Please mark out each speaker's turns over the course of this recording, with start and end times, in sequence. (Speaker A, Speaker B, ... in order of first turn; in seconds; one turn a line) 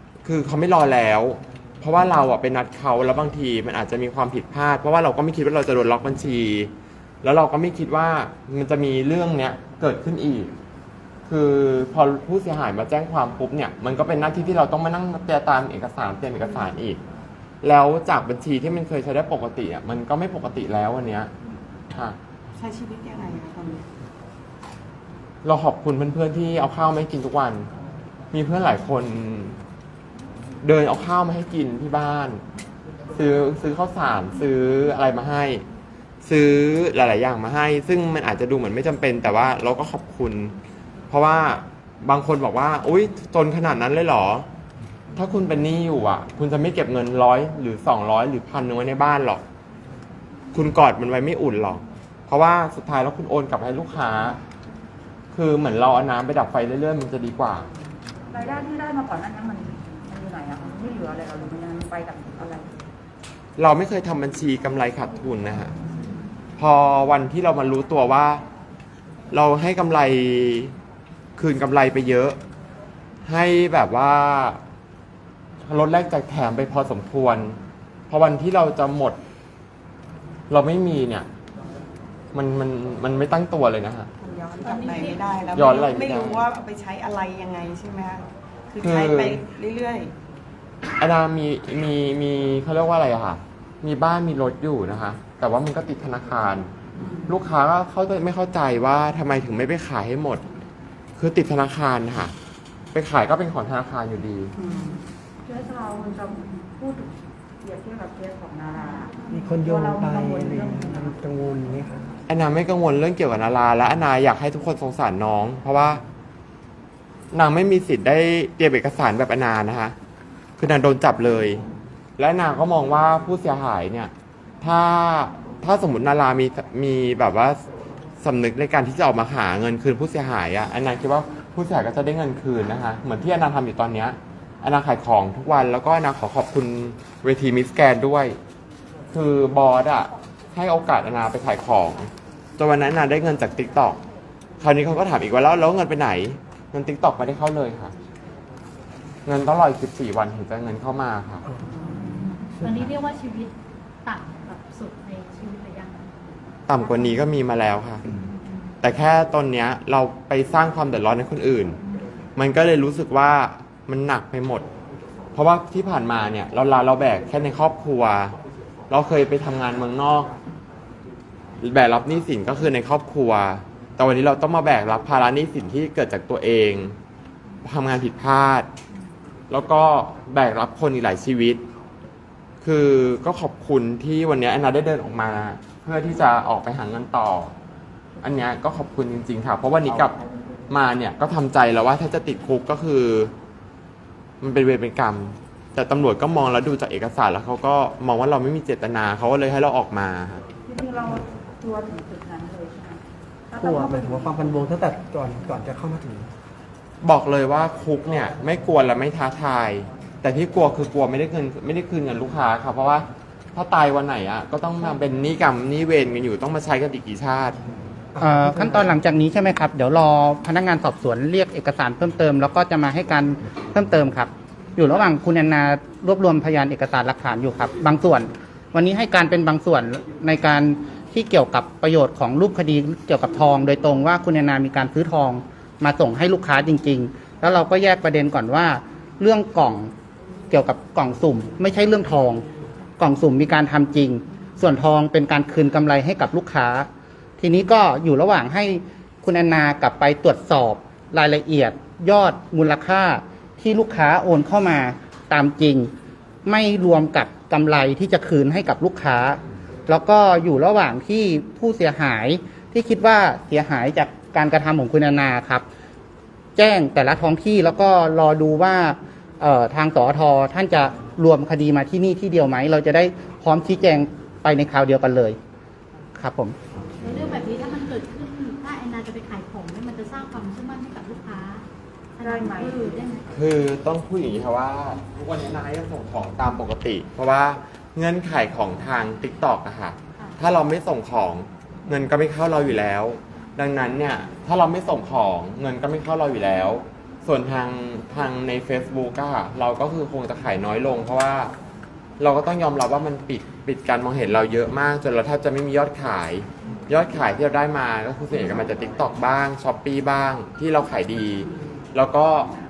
Speaker A: 0.2-6.7
Speaker A: 7.2-10.5
Speaker A: 11.2-17.0
Speaker A: 17.6-21.3
Speaker B: 22.6-23.8
Speaker A: 25.4-27.7
Speaker A: 28.3-29.6
Speaker A: 30.6-32.4
Speaker A: 33.1-35.6
Speaker A: 36.2-40.5
Speaker A: 41.1-44.5
Speaker A: 45.1-49.4
Speaker A: 50.5-54.4
Speaker A: 55.3-57.7
Speaker C: 58.3-62.7
Speaker A: 63.6-65.7
Speaker A: 66.6-68.4
Speaker A: 69.3-70.7
Speaker A: 71.4-72.4
Speaker A: 73.2-74.6
Speaker A: 75.7-77.6
Speaker A: 78.1-79.2
Speaker A: 80.5-81.3
Speaker A: 82.3-84.1
Speaker B: 84.2-90.1
Speaker D: 84.6-85.3
Speaker A: 85.5-86.4
Speaker A: 88.8-89.4
Speaker A: 91.0-96.7
Speaker B: 97.0-97.3
Speaker A: 97.3-100.4
Speaker A: 101.2-102.3
Speaker A: 102.9-104.5
Speaker B: 104.6-105.0
Speaker C: 105.5-111.1
Speaker E: 109.3-112.1
Speaker A: 112.3-116.0
Speaker A: 117.3-120.0
Speaker A: 120.6-121.6
Speaker A: 122.2-127.6
Speaker A: 128.2-138.4
Speaker A: 139.1-144.0
Speaker A: 144.6-147.9
Speaker A: 149.2-151.4
Speaker E: 151.4-151.7
Speaker D: 152.0-153.5
Speaker E: 152.6-152.9
Speaker D: 154.0-156.1
Speaker A: 156.7-158.0
Speaker A: 158.8-161.8
Speaker A: 162.3-164.7
Speaker A: 165.3-168.3
Speaker A: 168.9-170.3
Speaker A: 171.6-176.9
Speaker A: 177.6-178.7
Speaker A: 179.5-181.6
Speaker A: 182.6-187.5
Speaker A: 188.2-190.2
Speaker A: 190.7-193.3
Speaker A: 194.4-200.4
Speaker C: 200.7-204.6
Speaker E: 203.6-206.3
Speaker A: 207.0-217.6
Speaker E: 218.1-219.0
Speaker F: 218.2-239.9
Speaker F: 240.5-242.4
Speaker F: 243.0-255.9
Speaker F: 256.4-265.6
Speaker F: 266.6-275.4
Speaker F: 276.2-276.6
Speaker D: 277.0-281.6
Speaker D: 282.1-283.3
Speaker C: 282.2-283.0
Speaker A: 283.3-301.5
Speaker A: 302.2-312.5